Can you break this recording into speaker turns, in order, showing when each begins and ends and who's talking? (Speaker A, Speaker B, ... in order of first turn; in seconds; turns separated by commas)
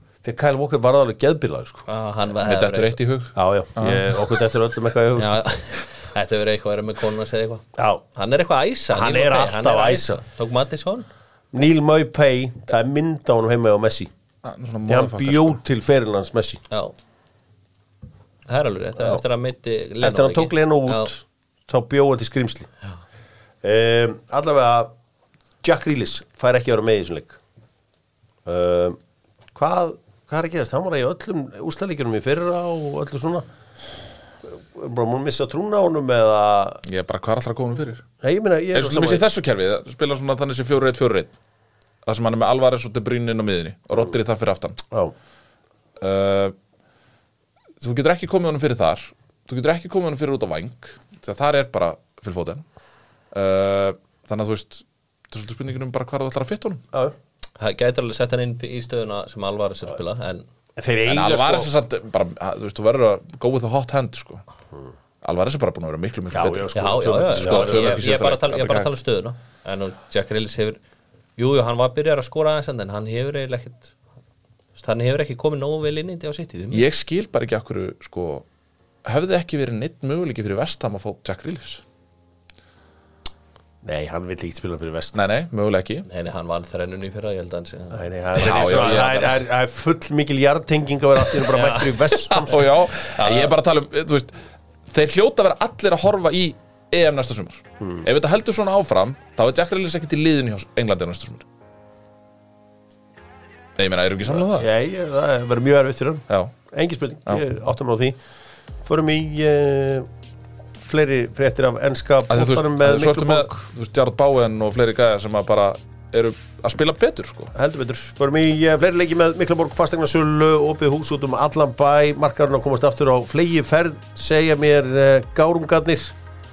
Speaker A: 0.2-1.9, Speaker B: 1.9-3.0, Speaker C: 2.4-4.2, Speaker A: 3.3-5.3, Speaker B: 5.2-11.1, Speaker A: 7.8-8.0, Speaker A: 8.9-10.2, Speaker A: 11.5-14.1, Speaker C: 14.4-15.6, Speaker A: 14.9-16.6, Speaker B: 18.5-21.1, Speaker A: 20.0-22.7, Speaker A: 23.6-24.9, Speaker A: 25.6-27.4, Speaker A: 28.4-29.0, Speaker A: 29.5-33.4, Speaker A: 34.4-36.8, Speaker C: 36.8-38.0, Speaker A: 38.2-39.2, Speaker C: 38.7-41.3, Speaker C: 42.0-44.8, Speaker C: 46.0-46.5, Speaker C: 47.8-52.6, Speaker C: 53.3-56.8, Speaker B: 57.6-60.5, Speaker A: 60.8-61.7, Speaker C: 61.0-64.4, Speaker C: 65.2-66.7, Speaker A: 66.3-68.1, Speaker B: 66.7-70.8, Speaker C: 67.3-68.9, Speaker B: 71.4-73.9, Speaker B: 74.8-76.8, Speaker C: 76.7-78.4, Speaker C: 79.0-81.8, Speaker A: 83.8-85.2, Speaker C: 85.1-86.0, Speaker B: 86.0-89.2, Speaker A: 87.9-92.6, Speaker C: 88.3-89.3, Speaker B: 91.4-92.5, Speaker C: 92.3-94.3, Speaker B: 93.0-93.5, Speaker C: 94.9-101.5, Speaker A: 97.8-98.0, Speaker C: 103.8-104.7, Speaker A: 104.3-108.2, Speaker C: 106.3-106.5, Speaker A: 108.8-110.1, Speaker A: 110.8-113.6, Speaker C: 112.3-117.5, Speaker A: 117.5-126.1